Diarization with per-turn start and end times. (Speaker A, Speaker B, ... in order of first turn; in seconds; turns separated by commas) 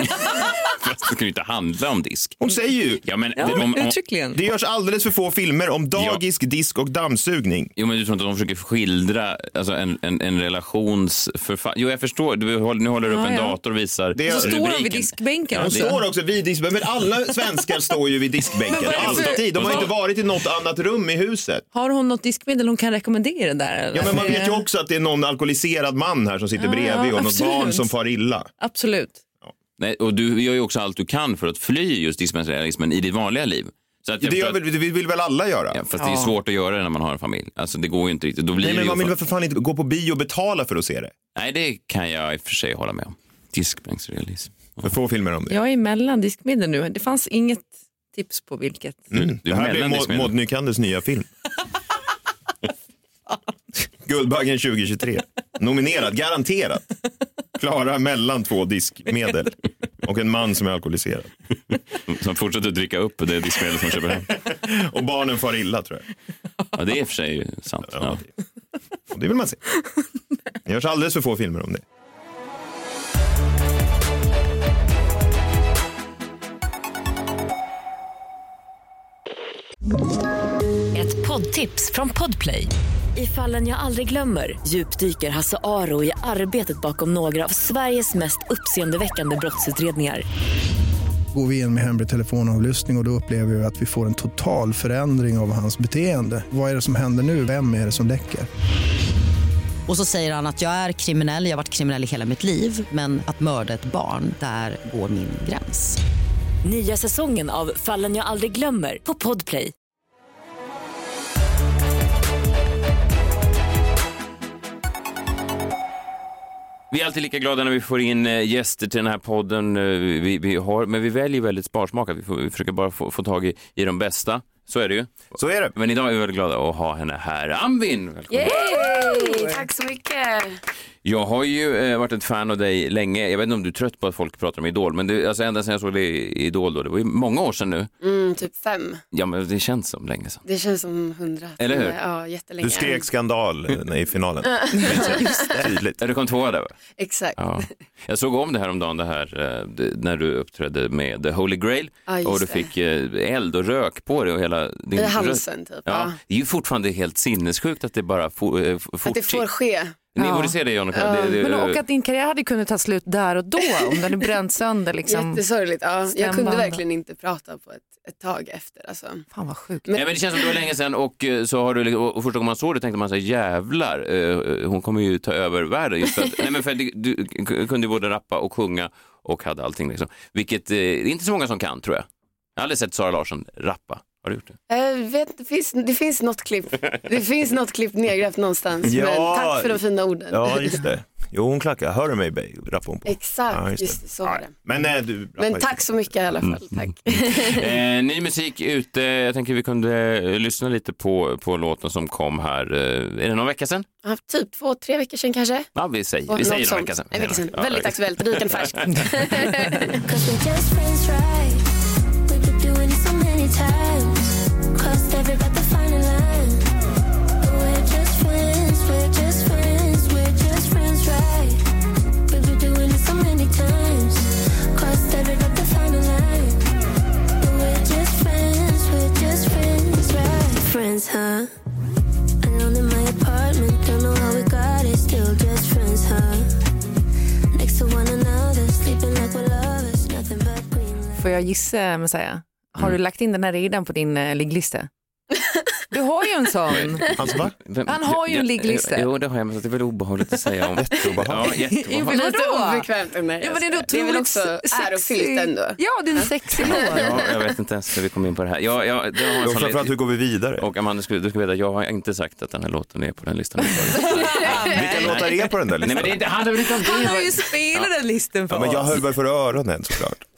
Speaker A: 0.2-2.4, Speaker B: 2.4-3.7, Speaker A: 3.0-4.0, Speaker C: 3.4-4.4, Speaker B: 4.3-7.7, Speaker A: 7.8-15.9, Speaker C: 13.1-13.6, Speaker B: 14.1-14.7, Speaker C: 14.3-16.0, Speaker B: 15.6-21.6, Speaker C: 18.7-19.8, Speaker A: 18.9-19.9, Speaker C: 21.7-24.6, Speaker B: 23.9-28.5, Speaker C: 26.6-27.9, Speaker C: 28.6-29.2, Speaker A: 29.8-34.6, Speaker B: 34.2-35.8, Speaker A: 35.7-39.1, Speaker C: 36.0-36.3, Speaker B: 38.6-41.1, Speaker A: 41.4-44.9, Speaker B: 44.8-45.6, Speaker C: 45.5-49.0, Speaker B: 49.1-51.3, Speaker A: 49.1-50.3, Speaker B: 53.9-56.9, Speaker B: 57.6-61.3, Speaker A: 62.1-64.3, Speaker B: 64.0-66.0, Speaker A: 66.7-68.2, Speaker B: 67.9-68.3, Speaker B: 69.1-69.6, Speaker B: 70.7-71.8, Speaker D: 80.9-90.2, Speaker E: 91.3-98.5, Speaker F: 99.9-106.0, Speaker D: 106.6-109.7, Speaker A: 116.9-128.6, Speaker B: 125.3-125.7, Speaker G: 128.3-130.6, Speaker C: 128.5-129.6, Speaker A: 131.0-137.9, Speaker G: 138.0-139.0, Speaker A: 139.1-140.4, Speaker G: 140.4-143.1, Speaker A: 141.6-142.0, Speaker B: 142.6-146.0, Speaker G: 144.6-145.6, Speaker A: 146.0-146.8, Speaker G: 147.0-147.7, Speaker A: 147.4-159.4, Speaker G: 152.1-152.7, Speaker G: 154.9-156.2, Speaker G: 159.1-160.0, Speaker A: 160.1-161.8, Speaker C: 160.2-160.6, Speaker G: 160.9-161.4, Speaker C: 161.4-165.4, Speaker G: 165.1-169.3, Speaker C: 166.1-166.8, Speaker C: 169.3-169.9, Speaker G: 169.9-170.2, Speaker A: 169.9-184.6, Speaker G: 184.7-190.8, Speaker B: 188.9-196.0, Speaker G: 193.1-194.5, Speaker G: 195.4-197.7, Speaker A: 197.2-203.9, Speaker G: 204.0-205.7, Speaker A: 205.8-209.1, Speaker G: 206.3-210.0, Speaker H: 210.0-211.7, Speaker H: 212.3-216.7, Speaker H: 217.4-221.6, Speaker H: 222.3-226.6, Speaker H: 227.4-231.5, Speaker H: 232.4-236.5, Speaker H: 237.5-241.3, Speaker C: 241.2-244.9, Speaker G: 245.3-245.6, Speaker C: 245.9-247.1, Speaker A: 246.7-252.2, Speaker B: 247.2-247.5, Speaker C: 247.9-249.1, Speaker B: 250.8-251.5, Speaker C: 251.7-252.9, Speaker G: 252.1-257.2, Speaker C: 253.4-257.1, Speaker A: 256.6-259.9, Speaker B: 259.4-260.6, Speaker A: 260.6-265.3, Speaker C: 264.0-265.2, Speaker B: 264.5-266.2, Speaker A: 265.8-267.9, Speaker C: 266.6-269.0, Speaker B: 268.5-270.2